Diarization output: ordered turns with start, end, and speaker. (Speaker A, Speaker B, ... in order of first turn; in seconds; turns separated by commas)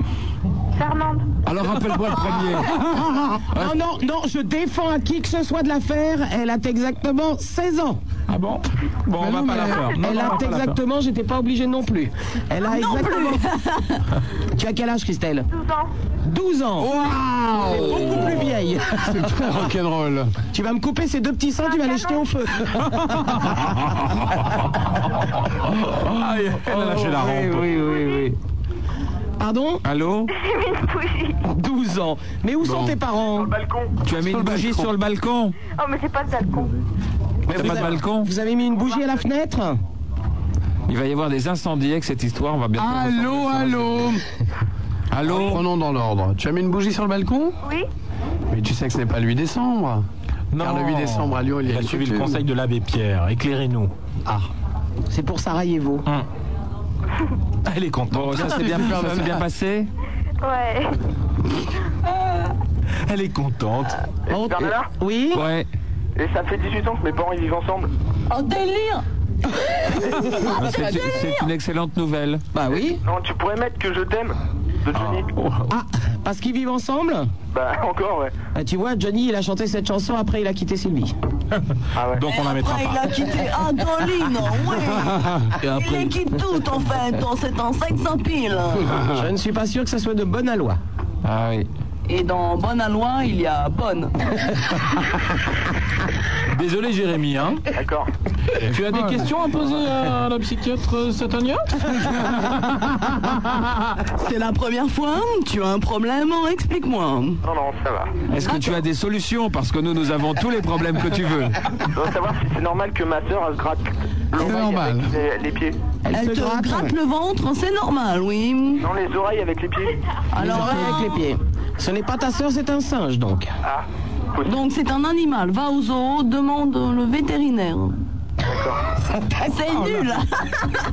Speaker A: 1.4-2.8, Speaker B: 2.9-8.0, Speaker C: 8.3-10.8, Speaker D: 9.2-10.0, Speaker B: 9.9-13.4, Speaker E: 12.6-14.0, Speaker B: 14.5-15.5, Speaker B: 16.2-16.9, Speaker D: 16.8-18.4, Speaker B: 17.6-19.6, Speaker D: 19.0-20.3, Speaker B: 20.5-23.3, Speaker C: 23.0-24.4, Speaker C: 25.7-27.8, Speaker B: 26.7-28.3, Speaker B: 29.4-29.8, Speaker A: 29.8-30.3, Speaker F: 30.4-31.1, Speaker B: 31.4-33.5, Speaker D: 32.6-33.0, Speaker G: 33.4-33.7, Speaker A: 34.0-35.5, Speaker D: 34.3-34.8, Speaker F: 35.8-36.7, Speaker B: 37.5-39.8, Speaker A: 37.5-38.3, Speaker A: 40.9-44.0, Speaker D: 42.8-44.2, Speaker A: 45.1-45.6, Speaker D: 45.2-47.5, Speaker D: 48.5-50.0, Speaker C: 50.5-53.9, Speaker D: 50.6-52.4, Speaker B: 55.1-56.0, Speaker C: 57.6-58.6, Speaker A: 58.1-59.9, Speaker D: 58.4-59.4, Speaker F: 60.4-60.8, Speaker C: 63.0-64.0, Speaker B: 64.3-65.4, Speaker G: 64.3-64.9, Speaker A: 65.3-65.7, Speaker G: 66.2-67.9, Speaker E: 68.3-69.0, Speaker E: 70.1-71.4, Speaker A: 70.5-72.4, Speaker B: 72.5-73.0, Speaker G: 73.0-75.2, Speaker C: 74.9-75.7, Speaker B: 75.7-77.3, Speaker G: 77.5-78.3, Speaker B: 78.5-81.1, Speaker G: 82.0-82.2, Speaker C: 82.1-83.3, Speaker E: 82.3-85.2, Speaker D: 85.0-85.4, Speaker C: 85.6-86.2, Speaker E: 85.7-88.9, Speaker D: 88.9-89.2, Speaker B: 89.1-90.8, Speaker A: 91.2-91.7, Speaker E: 92.1-94.1, Speaker C: 96.5-97.6, Speaker G: 97.7-98.1, Speaker C: 98.6-101.8, Speaker D: 98.7-99.3, Speaker D: 101.9-102.7, Speaker E: 104.2-107.4, Speaker G: 107.5-108.1, Speaker A: 108.3-111.5, Speaker E: 108.4-108.8, Speaker G: 112.0-115.7, Speaker D: 114.4-115.1, Speaker B: 116.0-116.9, Speaker E: 116.1-118.9, Speaker G: 118.8-119.9, Speaker E: 120.3-121.2, Speaker B: 120.3-123.5, Speaker E: 124.4-127.9, Speaker G: 128.5-128.8, Speaker E: 129.4-130.7